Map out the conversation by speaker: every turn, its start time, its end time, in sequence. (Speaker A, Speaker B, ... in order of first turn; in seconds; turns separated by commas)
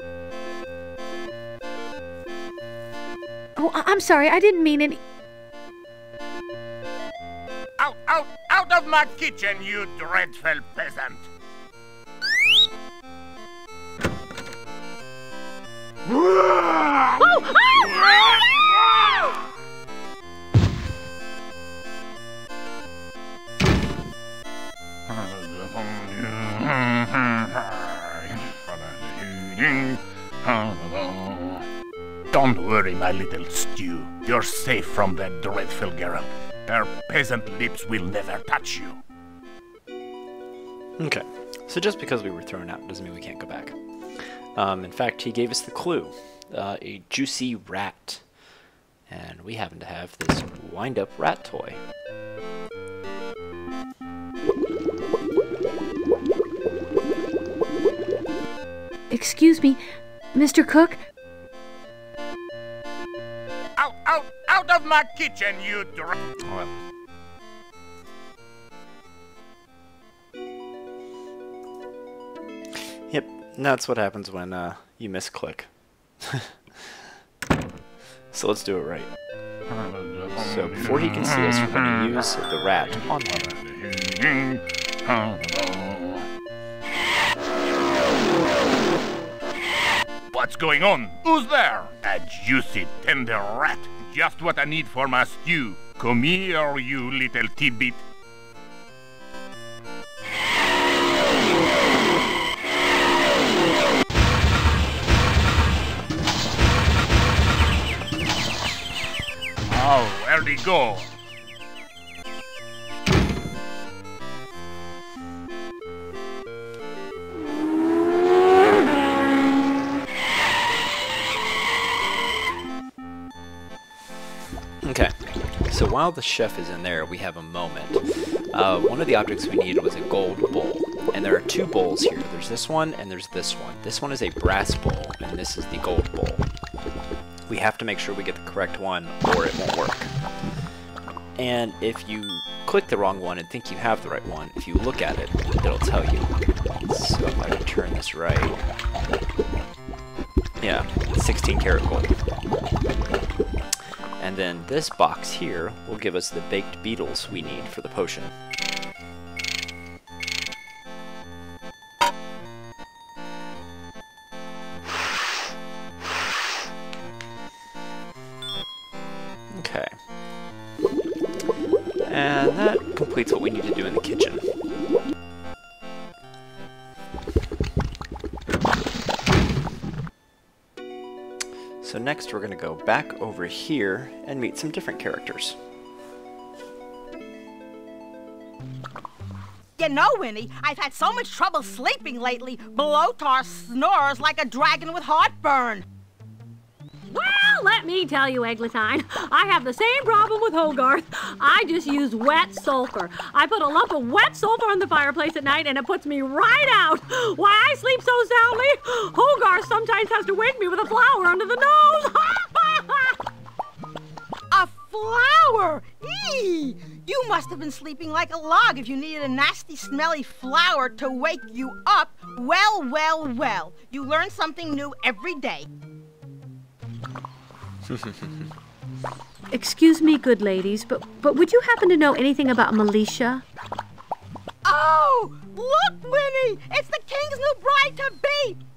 Speaker A: 3.6-5.0, Speaker B: 7.8-11.3, Speaker A: 17.2-17.6, Speaker B: 28.5-31.6, Speaker B: 32.3-39.0, Speaker C: 41.0-48.2, Speaker C: 49.1-51.8, Speaker A: 59.1-59.8, Speaker A: 60.3-61.0, Speaker B: 63.8-66.1, Speaker C: 66.4-66.7, Speaker C: 72.8-76.9, Speaker C: 78.3-79.1, Speaker C: 80.3-83.7, Speaker B: 90.3-98.0, Speaker B: 109.7-111.1, Speaker C: 124.8-125.1, Speaker C: 125.7-136.4, Speaker C: 137.5-140.1, Speaker C: 141.4-148.6, Speaker C: 150.6-152.2, Speaker C: 154.2-158.3, Speaker C: 169.5-169.9, Speaker C: 172.0-174.4, Speaker C: 181.8-185.6, Speaker D: 189.8-195.8, Speaker A: 197.1-213.2, Speaker D: 214.5-225.7, Speaker C: 227.9-228.5, Speaker A: 229.5-233.4, Speaker D: 234.6-238.6